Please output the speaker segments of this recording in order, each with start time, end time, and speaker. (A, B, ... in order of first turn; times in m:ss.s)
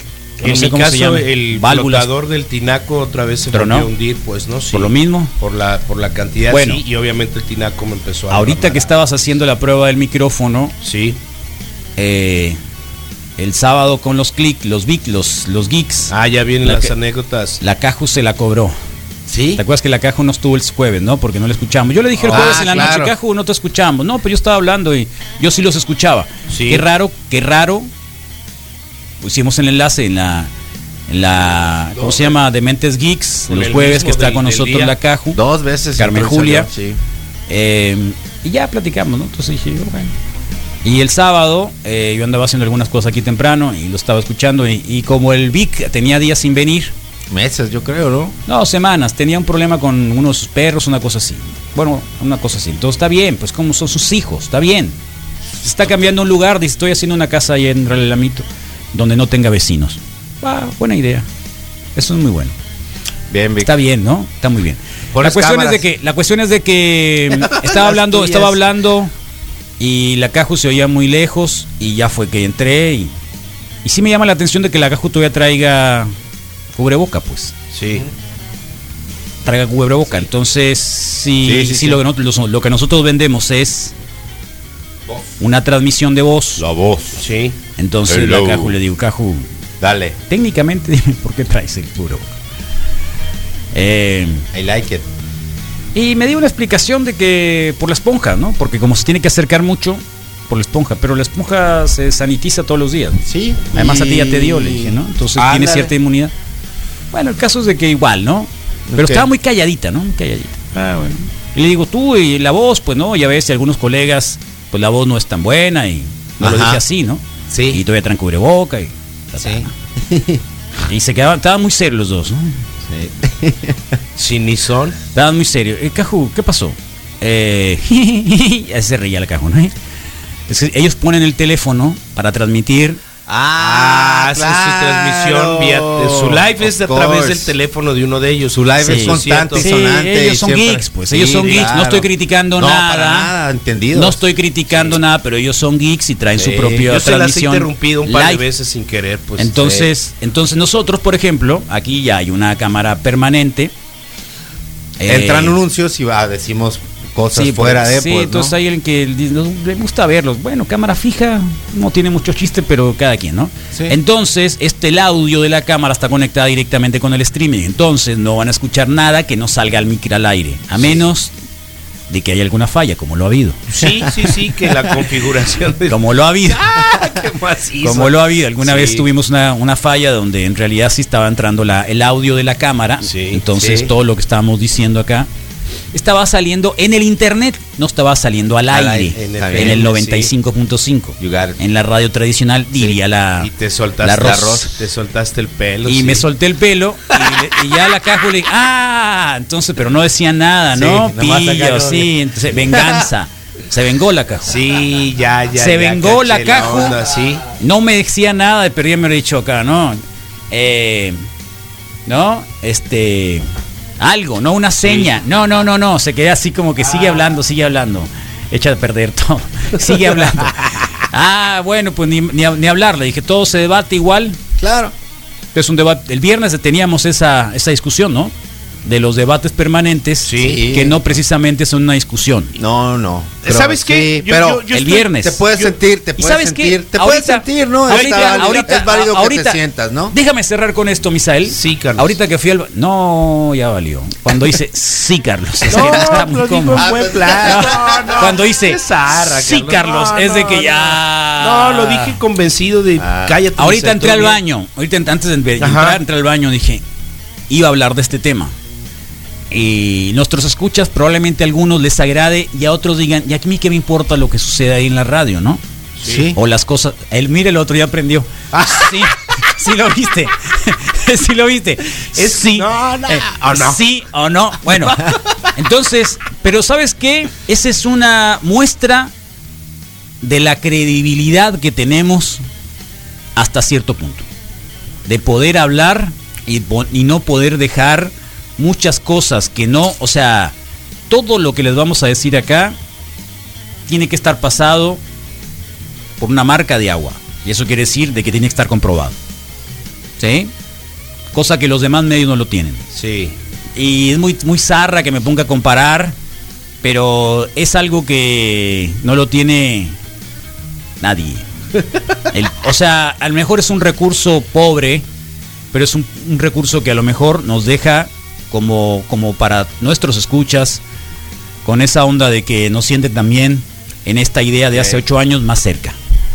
0:00.4-0:08.9 A
0:00.4-0:02.1 B
0:03.5-0:03.9 B
0:04.7-0:05.3 B
0:06.5-0:06.8 B
0:08.3-0:10.7 B
0:10.8-0:11.2 A
0:12.0-0:12.6 B
0:13.4-0:16.1 B
0:16.1-0:17.6 A
0:16.6-0:16.9 B
0:17.6-0:18.7 B
0:19.3-0:19.6 C
0:19.6-0:27.9 B
0:22.2-0:23.1 C
0:26.5-0:26.8 A
0:29.2-0:30.5 B
0:31.1-0:35.4 B
0:32.0-0:32.3 C
0:33.5-0:34.9 A
0:35.3-0:37.0 C
0:36.0-0:36.7 B
0:37.5-0:40.1 B
0:40.8-0:46.9 B
0:47.3-0:48.3 C
0:48.5-0:54.9 B
0:55.6-1:01.2 B
1:02.0-1:02.5 B
1:03.3-1:03.7 C
1:03.6-1:09.1 B
1:05.1-1:05.8 C
1:07.4-1:08.3 C
1:08.2-1:08.5 A
1:09.8-1:13.1 B
1:13.8-1:16.1 B
1:16.7-1:17.5 B
1:17.7-1:18.0 A
1:19.4-1:23.9 B
1:21.4-1:22.0 C
1:25.4-1:26.6 B
1:26.6-1:27.2 C
1:27.2-1:27.6 A
1:27.8-1:29.5 B
1:28.1-1:28.8 C
1:29.8-1:30.2 C
1:30.3-1:32.3 B
1:33.7-1:34.4 B
1:34.5-1:35.0 C
1:35.9-1:43.2 B
1:43.2-1:45.9 C
1:43.7-1:46.3 B
1:47.1-1:59.7 B
1:48.9-1:49.3 C
1:56.4-1:56.8 C
1:57.5-1:57.8 C
1:59.4-2:00.4 C
2:00.9-2:02.6 B
2:02.9-2:03.9 C
2:04.2-2:05.0 A
2:05.1-2:09.7 B
2:10.5-2:13.0 B
2:13.3-2:17.5 C
2:13.6-2:19.7 A
2:18.5-2:24.2 C
2:18.8-2:23.3 B
2:23.9-2:28.4 B
2:26.4-2:29.9 A
2:29.4-2:33.7 B
2:35.0-2:35.6 B
2:35.0-2:38.5 C
2:37.3-2:51.3 B
2:52.1-2:53.6 B
2:53.7-2:58.1 A
2:55.9-2:56.6 B
2:57.8-3:05.3 B
3:03.0-3:03.4 A
3:03.5-3:03.9 C
3:05.9-3:13.5 B
3:08.7-3:09.8 C
3:09.2-3:10.3 A
3:11.2-3:11.6 C
3:13.4-3:16.2 A
3:14.0-3:14.7 B
3:14.1-3:14.7 C
3:15.8-3:24.5 B
3:20.7-3:22.1 C
3:22.7-3:23.0 C
3:24.4-3:27.4 A
3:25.6-3:26.9 B
3:27.6-3:31.2 B
3:32.1-3:33.4 B
3:34.0-3:44.4 B
3:44.6-3:44.9 C
3:45.5-3:48.3 B
3:48.8-3:52.5 B
3:50.2-3:50.6 A
3:50.4-3:51.0 C
3:52.5-3:54.6 C
3:53.4-3:55.7 A
3:54.7-3:55.4 B
3:55.2-4:00.1 C
3:56.2-3:59.6 B
3:57.9-3:58.7 A
4:00.1-4:12.1 B
4:01.5-4:02.2 A
4:05.7-4:14.4 A
4:05.7-4:08.3 C
4:13.0-4:13.4 C
4:13.6-4:16.8 B
4:15.6-4:16.0 A
4:17.5-4:18.5 B
4:19.5-4:25.6 B
4:26.0-4:26.3 A
4:26.0-4:26.4 C
4:26.3-4:39.1 B
4:28.5-4:29.0 C
4:32.2-4:33.8 A
4:40.2-4:42.4 B
4:43.4-4:44.2 B
4:45.0-4:50.5 B
4:51.1-4:52.7 B
4:53.9-4:55.0 B
4:56.2-4:59.1 B
5:00.2-5:00.5 B
5:01.3-5:02.8 B
5:02.9-5:03.4 A
5:03.7-5:06.1 B
5:06.8-5:10.0 B
5:11.0-5:11.4 B
5:12.3-5:15.0 B
5:15.7-5:20.8 B
5:21.6-5:26.0 B
5:24.7-5:25.0 C